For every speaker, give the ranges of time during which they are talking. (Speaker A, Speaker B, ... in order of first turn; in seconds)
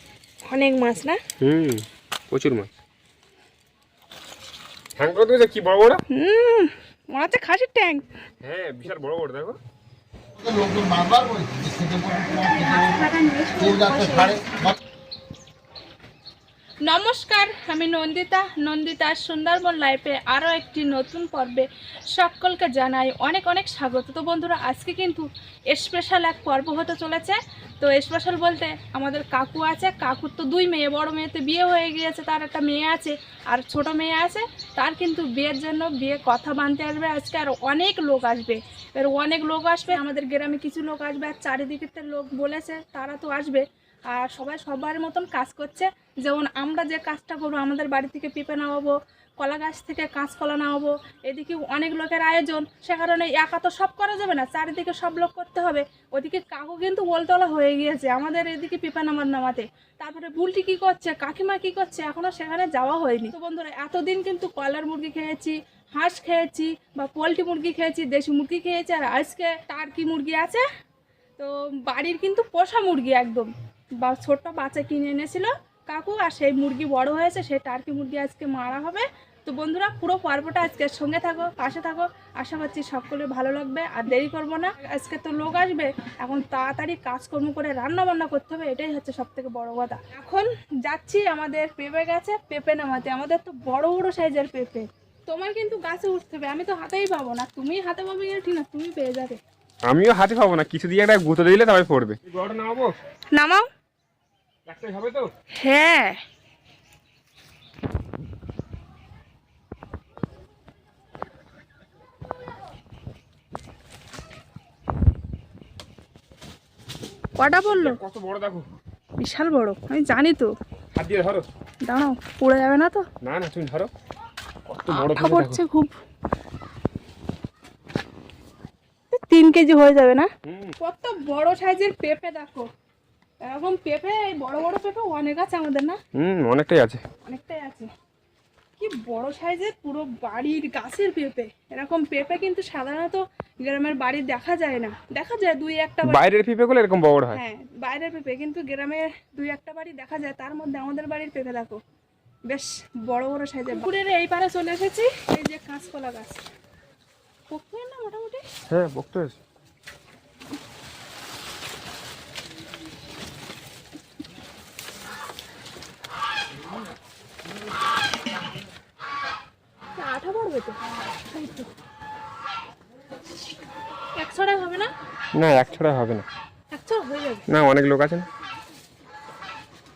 Speaker A: 0.5-1.2, 6.1-8.1, 12.3-14.3, 16.8-70.6, 71.4-99.4, 103.3-103.7, 105.6-106.2, 117.4-118.0, 119.2-120.5, 121.8-123.0, 124.9-126.0, 129.1-132.7, 133.4-136.0, 137.2-137.9, 138.8-146.2, 147.3-151.8, 152.5-156.4, 157.5-158.4, 170.0-170.8, 171.3-171.6, 174.2-174.9, 176.7-177.4
Speaker B: 1.4-2.7, 5.0-6.0, 8.4-9.6, 99.8-102.9, 104.7-105.3, 117.6-118.7, 120.9-121.4, 123.2-123.9, 124.7-125.6, 130.4-130.7, 136.1-137.0, 146.0-147.4, 158.7-159.4, 175.3-176.2, 177.5-178.2
Speaker C: 10.3-14.8